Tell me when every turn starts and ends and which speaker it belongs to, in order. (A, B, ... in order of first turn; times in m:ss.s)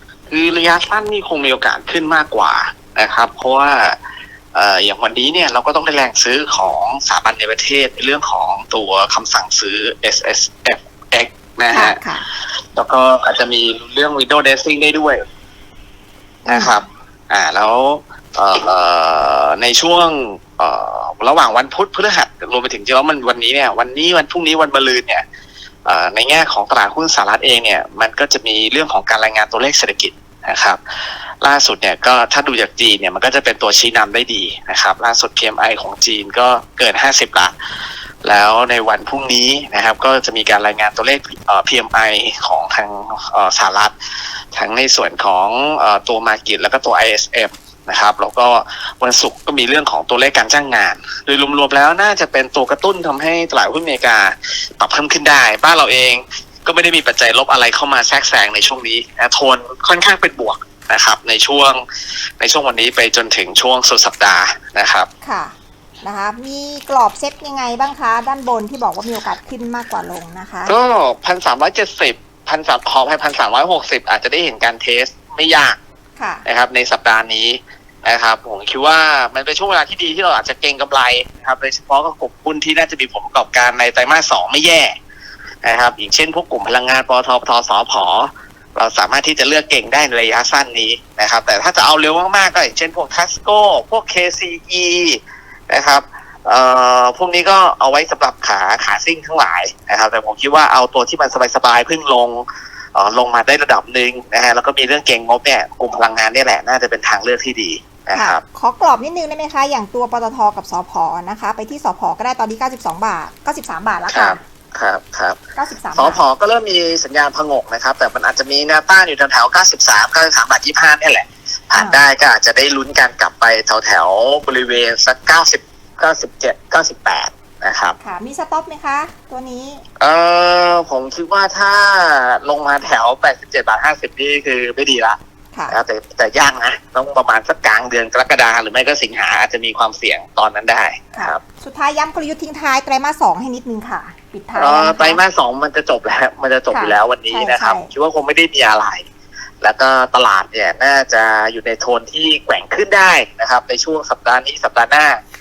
0:00.3-0:04.0 A
0:04.5-0:12.0 A
0:11.7-0:12.2 B
0:12.8-0:15.2 A
0:16.4-0:25.2 A
0:16.5-0:16.8 B
0:25.9-0:30.8 A
0:31.4-0:37.5 A
0:38.2-0:43.9 A
0:44.5-1:01.8 A
1:02.4-1:05.1 A
1:05.2-1:10.7 B
1:10.7-1:15.8 A
1:16.2-1:16.4 B
1:16.5-1:25.0 A
1:25.6-1:48.4 A
1:48.1-1:54.4 B
1:54.1-1:55.4 A
1:55.6-1:56.2 B
1:55.9-2:08.0 A
2:01.8-2:02.0 B
2:08.0-2:09.8 B
2:10.0-2:15.2 A
2:15.5-2:15.8 B
2:15.7-2:21.4 A
2:21.2-2:25.2 B
2:24.6-2:29.1 A
2:26.7-2:27.9 B
2:29.6-2:35.2 A